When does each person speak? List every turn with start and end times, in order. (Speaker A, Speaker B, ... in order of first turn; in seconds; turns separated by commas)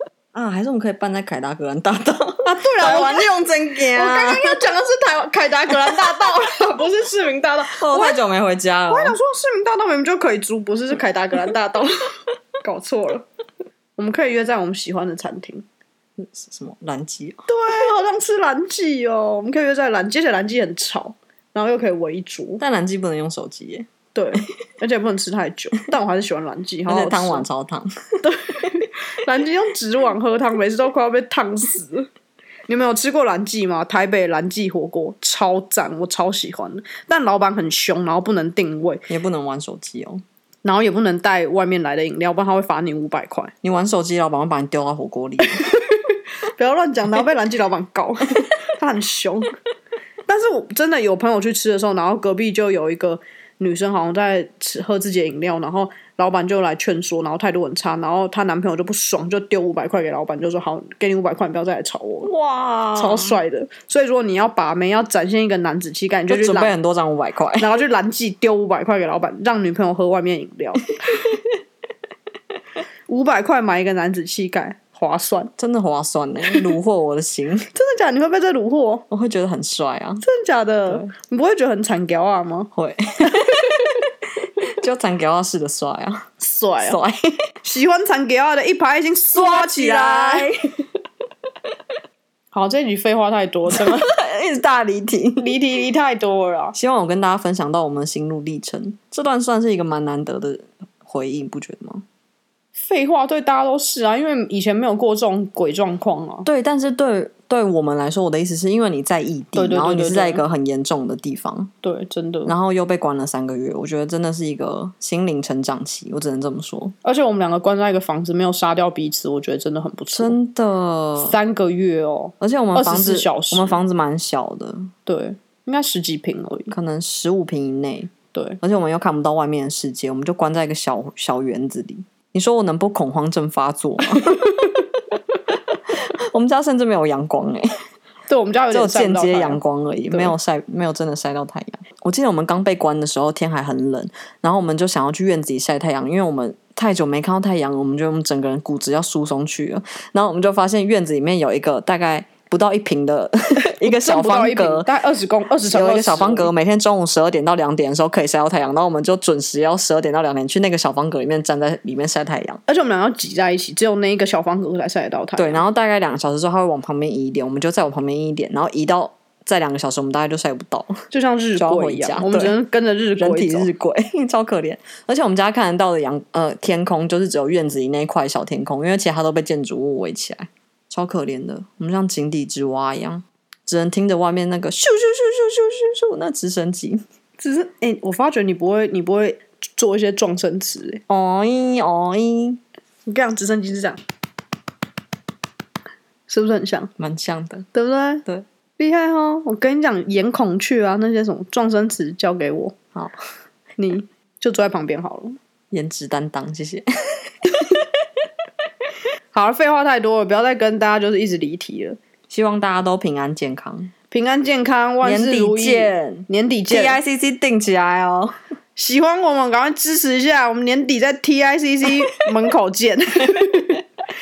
Speaker A: 0.3-4.6, Speaker B: 2.5-3.3, Speaker B: 3.9-8.2, Speaker A: 7.8-9.2, Speaker B: 8.9-12.1, Speaker B: 12.6-13.3, Speaker B: 14.0-15.6, Speaker A: 16.2-17.5, Speaker B: 17.5-22.6, Speaker A: 22.6-23.9, Speaker B: 24.1-27.5, Speaker A: 26.9-27.9, Speaker B: 28.2-32.1, Speaker B: 32.7-39.1, Speaker A: 39.1-40.2, Speaker B: 40.6-43.5, Speaker A: 43.6-45.6, Speaker B: 45.4-49.5, Speaker B: 50.3-62.3, Speaker A: 62.2-63.4, Speaker B: 63.0-66.7, Speaker A: 66.3-67.8, Speaker B: 67.6-71.3, Speaker A: 71.0-71.5, Speaker B: 73.1-75.5, Speaker A: 75.6-77.7, Speaker B: 77.7-79.0, Speaker A: 79.1-80.2, Speaker B: 80.2-82.7, Speaker A: 82.7-84.0, Speaker B: 83.3-83.8, Speaker A: 84.6-86.3, Speaker B: 86.4-87.0, Speaker A: 86.8-87.4, Speaker B: 87.6-90.5, Speaker A: 89.3-90.6, Speaker B: 92.5-94.1, Speaker A: 93.7-95.5, Speaker B: 95.4-96.8, Speaker A: 96.7-102.0, Speaker B: 102.8-106.5, Speaker A: 106.5-111.7, Speaker B: 109.5-110.5, Speaker B: 111.8-112.5, Speaker A: 112.5-117.0, Speaker B: 117.0-120.4, Speaker A: 120.1-121.4, Speaker B: 121.2-123.8, Speaker A: 122.4-124.9, Speaker B: 125.1-126.7, Speaker A: 126.7-135.2, Speaker B: 128.3-128.6, Speaker B: 134.3-134.6, Speaker A: 135.7-137.8, Speaker B: 138.3-139.6, Speaker A: 138.7-154.9, Speaker B: 153.8-156.5, Speaker A: 155.6-162.6, Speaker B: 162.7-165.6, Speaker A: 165.4-171.0, Speaker B: 171.1-173.7, Speaker A: 171.6-172.6, Speaker A: 173.2-187.0, Speaker B: 187.4-191.0, Speaker A: 191.1-192.6, Speaker B: 193.1-194.0, Speaker B: 196.3-196.9, Speaker A: 197.0-197.7, Speaker B: 197.7-198.2, Speaker B: 198.8-202.7, Speaker B: 203.8-205.4, Speaker A: 205.7-207.9, Speaker B: 209.3-212.0, Speaker A: 212.3-213.9, Speaker B: 214.1-217.0, Speaker A: 215.0-218.4, Speaker B: 218.8-223.8